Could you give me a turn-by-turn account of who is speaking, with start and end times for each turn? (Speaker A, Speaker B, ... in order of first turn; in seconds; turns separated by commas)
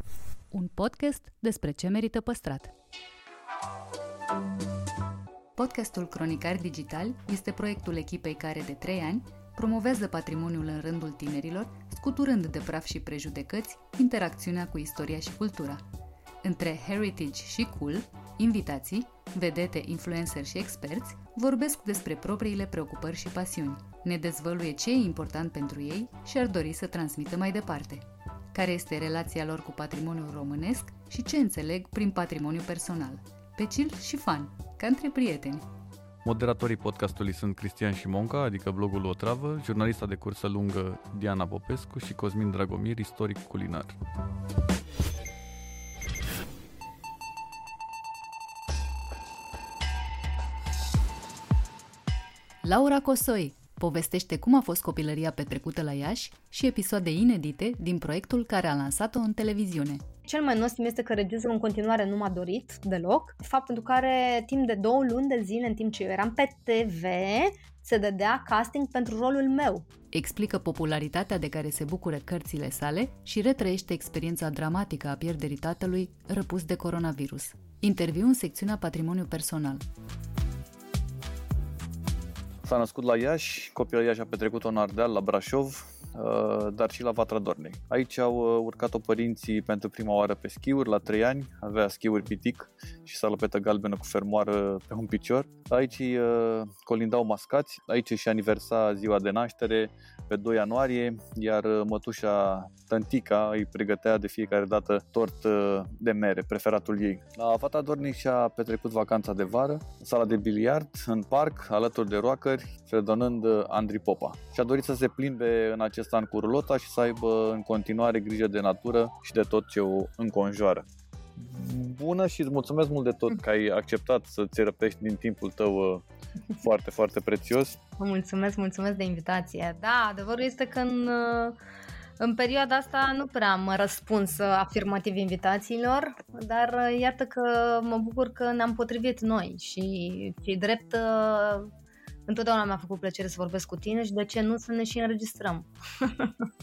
Speaker A: 0.5-2.7, Speaker A: 5.6-15.8, Speaker A: 16.4-35.6, Speaker B: 36.2-44.0, Speaker A: 52.6-60.0, Speaker C: 60.2-69.9, Speaker A: 70.1-79.8, Speaker B: 82.6-126.0, Speaker B: 126.6-127.8, Speaker C: 128.0-131.6, Speaker C: 132.2-141.7, Speaker C: 142.3-146.3